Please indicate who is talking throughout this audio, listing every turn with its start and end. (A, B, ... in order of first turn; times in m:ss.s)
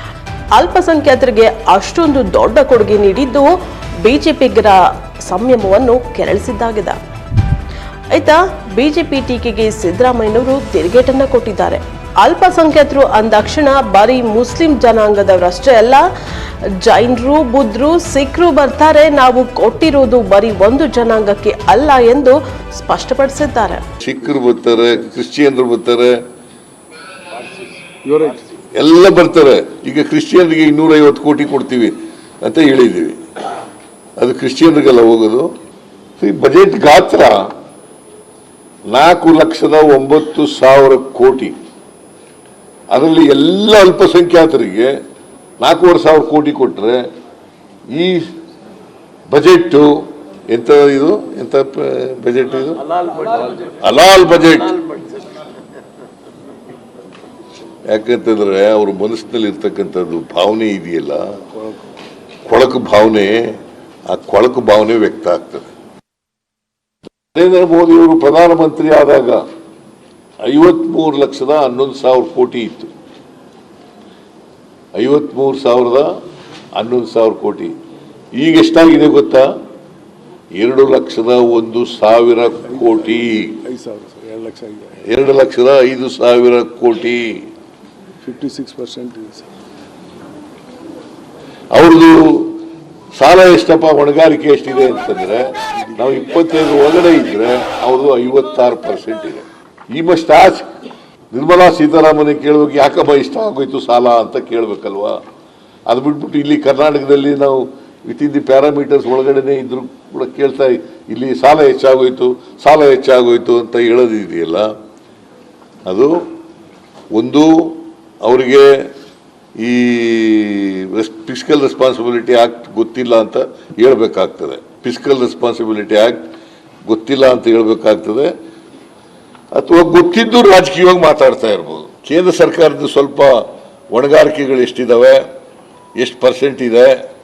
0:00.6-0:03.5 A
0:04.0-0:07.0 A
0:08.1-0:16.0 A
0:16.8-0:23.8 A
0:24.0-0:26.2 B
0:27.9-0:28.4 C
0:28.8-0:33.2 B
0:34.2-0:35.5 B
0:36.2-0:37.4 B
0:38.9-0:41.6 B
0:42.9-0:44.9 B
0:45.6-0:47.0 B
0:47.9-0:48.3 B
0:49.3-0:52.9 B
0:53.8-0:54.9 B
0:57.9-1:01.2 B
1:02.5-1:03.5 B
1:04.1-1:05.7 B
1:07.4-1:09.4 B
1:10.4-1:12.9 B
1:15.0-1:16.1 B
1:16.8-1:17.7 B
1:18.4-1:19.5 B
1:20.6-1:23.6 B
1:22.7-1:25.0 C
1:25.0-1:27.5 B
1:28.2-1:29.5 C
1:31.7-1:32.6 B
1:33.2-1:40.7 B
1:41.3-1:45.2 B
1:45.9-1:54.7 B
1:55.9-1:56.1 B
1:57.1-1:58.9 B
1:59.6-2:06.2 B
2:06.9-2:08.3 B
2:09.5-2:15.2 B
2:16.0-2:17.0 B